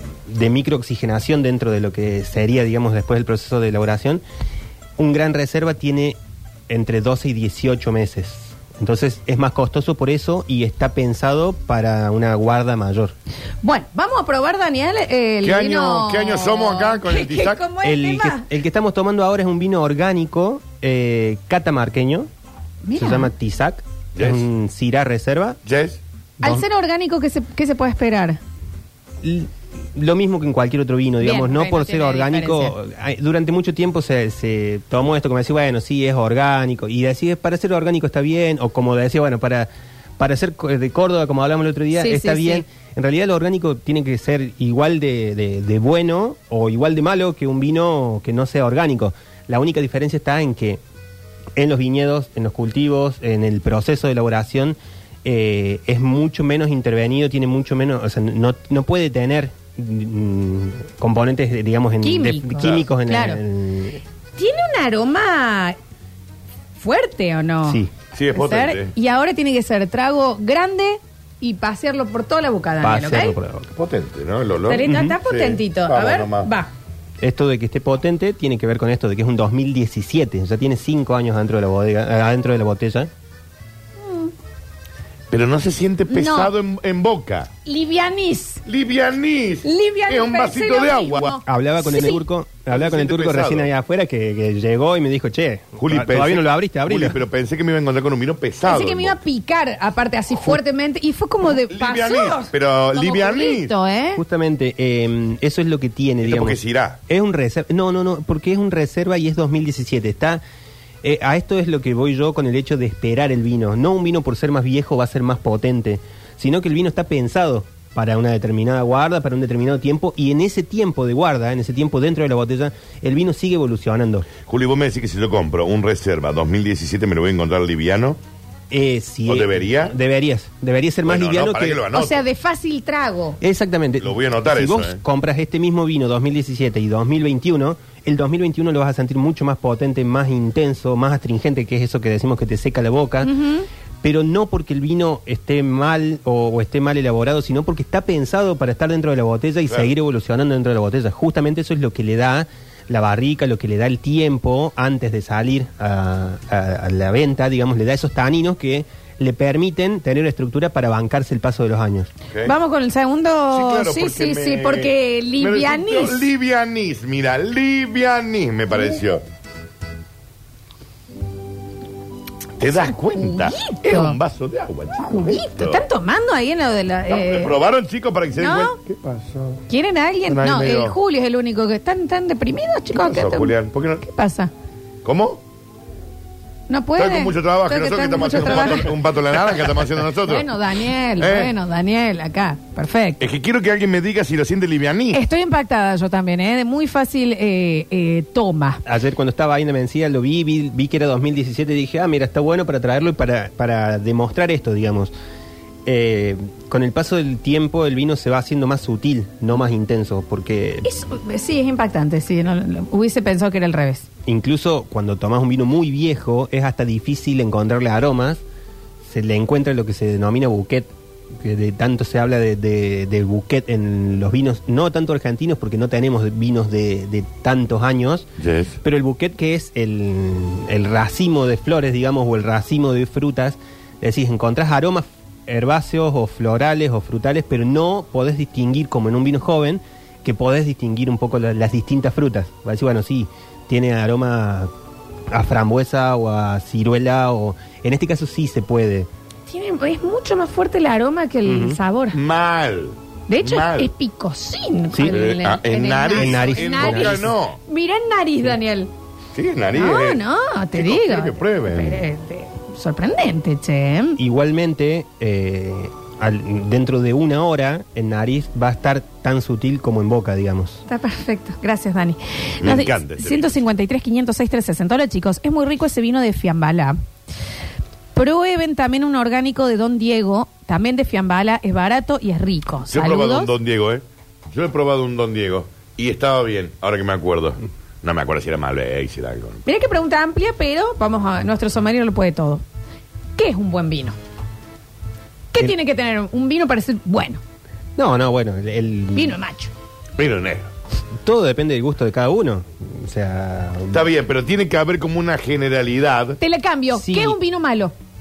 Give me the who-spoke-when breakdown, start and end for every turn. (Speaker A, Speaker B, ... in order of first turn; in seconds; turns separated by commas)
Speaker A: 0.3-4.2, Speaker A: 5.0-6.2, Speaker A: 6.7-13.1, Speaker B: 13.6-18.4, Speaker C: 15.4-17.6, Speaker A: 17.8-22.3, Speaker B: 22.8-23.3, Speaker A: 22.9-25.6, Speaker C: 24.1-24.4, Speaker C: 25.6-26.0, Speaker B: 26.4-28.4, Speaker A: 29.2-50.8, Speaker B: 31.2-32.7, Speaker B: 41.9-42.6, Speaker A: 51.5-64.0, Speaker B: 62.0-63.4, Speaker B: 64.3-65.8, Speaker B: 66.8-67.8, Speaker A: 67.7-67.9, Speaker C: 68.1-68.9, Speaker B: 68.3-73.4, Speaker A: 72.8-73.7, Speaker C: 73.7-76.5, Speaker B: 74.7-76.7, Speaker A: 74.8-75.2, Speaker A: 77.2-83.1, Speaker B: 84.0-84.3, Speaker C: 85.3-87.5, Speaker B: 86.1-86.5, Speaker B: 87.6-88.6, Speaker C: 88.7-91.4, Speaker B: 89.6-92.2, Speaker A: 91.5-97.2, Speaker C: 92.7-93.7, Speaker C: 95.8-99.2, Speaker B: 98.7-104.2, Speaker C: 101.7-103.7, Speaker A: 104.2-110.4, Speaker C: 106.2-107.0, Speaker A: 111.0-124.3, Speaker C: 124.4-128.2, Speaker A: 128.7-131.8, Speaker C: 129.3-129.9, Speaker C: 131.0-132.2, Speaker B: 131.9-133.4, Speaker A: 133.4-143.4, Speaker C: 134.0-135.0, Speaker B: 143.2-143.7, Speaker A: 144.0-162.1, Speaker B: 162.4-166.3, Speaker C: 163.5-169.2, Speaker C: 172.6-175.8, Speaker B: 173.2-174.2, Speaker B: 175.0-177.5, Speaker C: 177.1-179.6, Speaker B: 178.4-178.8, Speaker B: 179.7-184.5, Speaker C: 180.3-180.9, Speaker C: 182.9-184.0, Speaker C: 185.0-185.4, Speaker B: 186.7-188.9, Speaker C: 187.0-190.5, Speaker B: 190.2-193.2, Speaker C: 191.2-191.5, Speaker C: 193.2-195.2, Speaker B: 195.1-198.8, Speaker A: 198.8-205.1, Speaker A: 205.8-210.9, Speaker B: 210.8-214.1, Speaker A: 214.2-218.4, Speaker A: 219.0-228.3, Speaker C: 228.4-228.8, Speaker A: 228.8-244.7, Speaker A: 245.3-249.1, Speaker B: 249.5-252.2, Speaker A: 251.4-251.8, Speaker C: 252.1-253.9, Speaker B: 253.3-258.9, Speaker A: 254.9-255.2, Speaker C: 255.0-257.6, Speaker A: 256.1-257.3, Speaker C: 259.3-260.2, Speaker B: 259.7-264.2, Speaker C: 260.7-262.0, Speaker A: 264.2-270.8, Speaker B: 270.9-277.0, Speaker C: 272.6-273.6, Speaker B: 278.1-283.5, Speaker C: 282.9-289.6, Speaker B: 289.6-292.6, Speaker B: 293.4-294.1, Speaker B: 295.5-297.4, Speaker A: 297.9-299.4, Speaker B: 299.1-299.7, Speaker C: 300.2-300.7, Speaker A: 301.2-304.1, Speaker C: 303.9-306.4, Speaker B: 306.4-307.9, Speaker A: 306.9-307.4